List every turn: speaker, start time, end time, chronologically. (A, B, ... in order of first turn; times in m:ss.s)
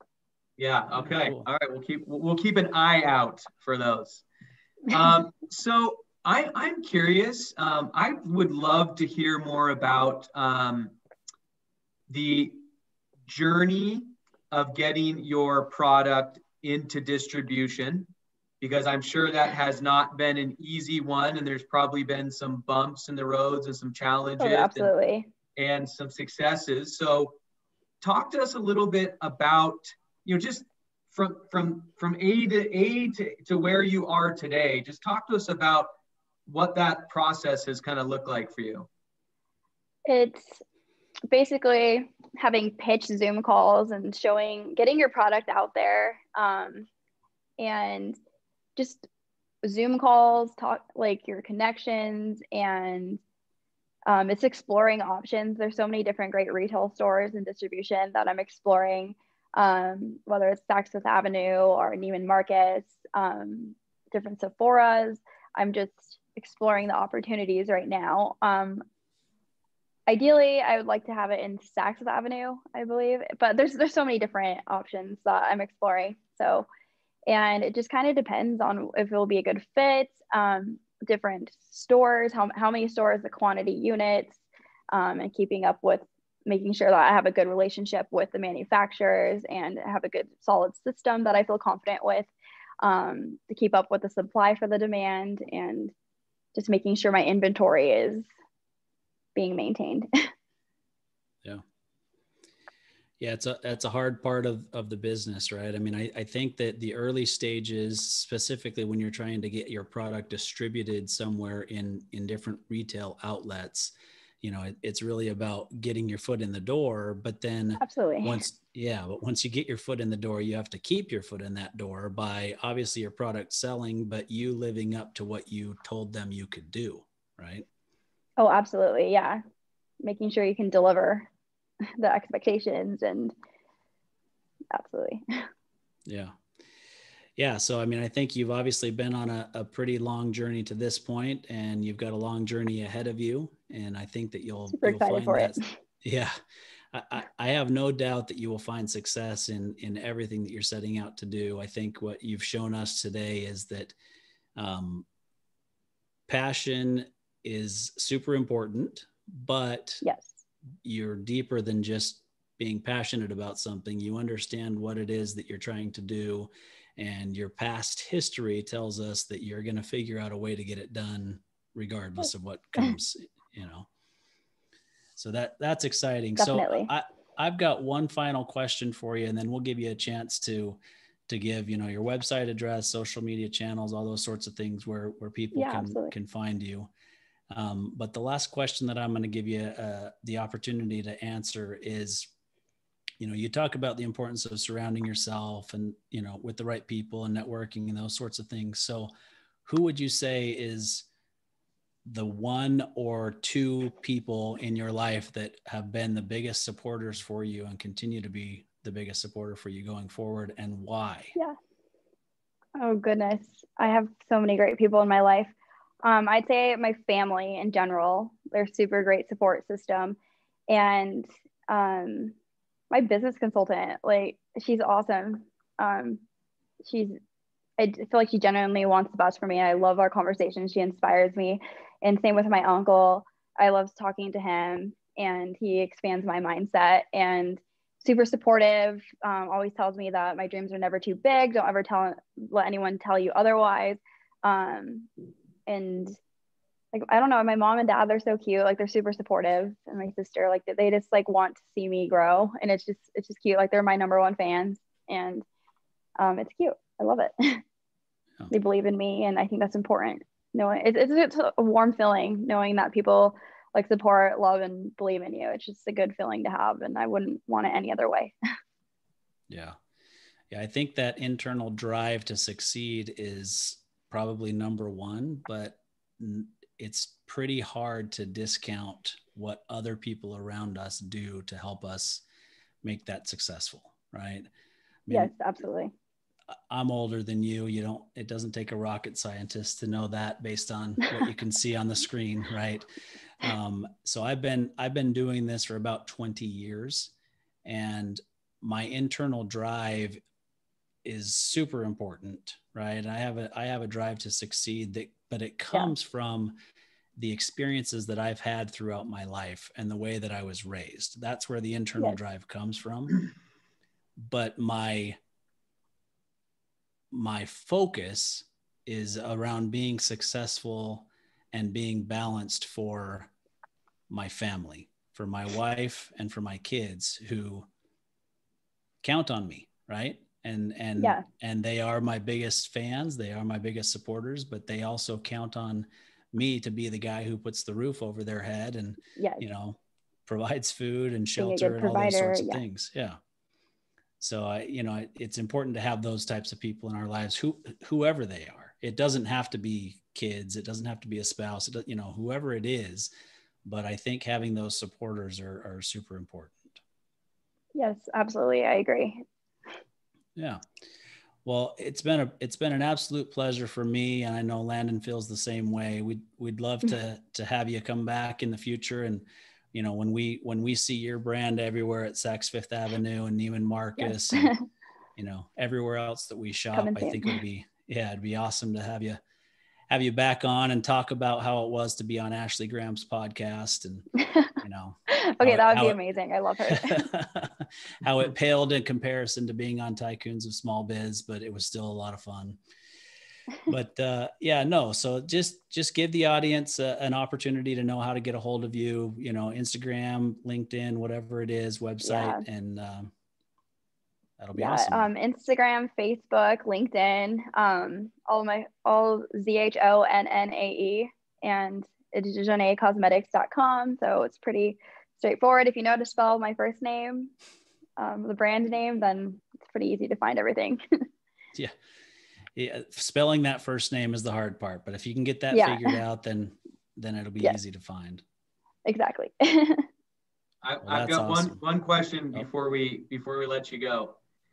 0:00.6-0:04.2 A
0:01.0-0:01.5 B
0:04.9-0:10.9 A
0:12.1-0:12.6 A
0:13.3-0:18.1 A
0:18.6-0:24.9 A
0:24.4-0:25.3 C
0:25.6-0:27.4 A
0:28.0-0:35.9 A
0:36.4-0:38.9 A
0:40.1-0:40.5 C
0:41.3-0:46.9 C
0:47.6-0:48.2 C
0:48.8-0:49.1 C
0:49.6-0:53.2 C
0:54.1-1:08.8 C
1:10.1-1:16.6 C
1:17.3-1:24.4 C
1:24.9-1:32.3 C
1:32.8-1:35.9 C
1:36.5-1:38.2 C
1:39.4-1:40.3 C
1:43.2-2:07.6 B
1:57.8-1:58.4 C
2:08.4-2:09.4 C
2:10.0-2:11.3 C
2:12.0-2:13.3 C
2:14.7-2:15.5 C
2:16.1-2:16.3 B
2:17.4-2:26.3 B
2:24.7-2:25.8 C
2:26.9-2:33.9 B
2:34.6-2:35.0 B
2:36.3-2:40.0 B
2:40.0-2:40.4 C
2:40.8-2:53.9 B
2:55.2-3:06.9 B
2:56.4-2:56.9 C
3:05.5-3:06.1 C
3:07.5-3:12.3 B
3:13.2-3:19.1 B
3:19.6-3:21.0 B
3:22.0-3:31.3 B
3:32.8-3:40.2 C
3:40.7-3:42.3 C
3:42.9-3:46.2 C
3:46.8-3:47.2 C
3:47.8-4:05.1 C
4:05.7-4:06.2 C
4:06.9-4:15.4 C
4:16.2-4:17.6 C
4:18.5-4:28.3 C
4:29.5-4:29.8 B
4:30.5-4:42.2 B
4:42.8-4:44.5 B
4:45.1-4:45.3 B
4:45.1-4:45.9 C
4:46.7-4:52.8 B
4:53.4-4:57.1 B
4:57.6-5:00.2 B
5:01.0-5:06.6 B
5:07.2-5:13.2 B
5:14.2-5:15.2 B
5:17.1-5:23.3 B
5:24.1-5:27.7 B
5:29.0-5:43.2 B
5:31.0-5:31.2 C
5:39.2-5:39.4 C
5:41.4-5:42.6 C
5:44.2-5:53.1 B
5:53.6-5:56.8 B
5:57.7-5:59.2 C
6:00.4-6:00.6 B
6:01.4-6:14.6 B
6:15.2-6:19.2 B
6:16.7-6:17.4 C
6:19.9-6:26.0 B
6:25.1-6:27.1 C
6:26.7-6:32.6 B
6:33.7-6:43.1 B
6:42.0-6:42.4 C
6:44.4-6:45.1 B
6:44.6-6:57.3 C
6:58.0-7:01.0 C
7:02.5-7:08.2 B
7:05.5-7:06.0 C
7:08.8-7:09.8 C
7:10.6-7:14.2 A
7:10.8-7:11.6 B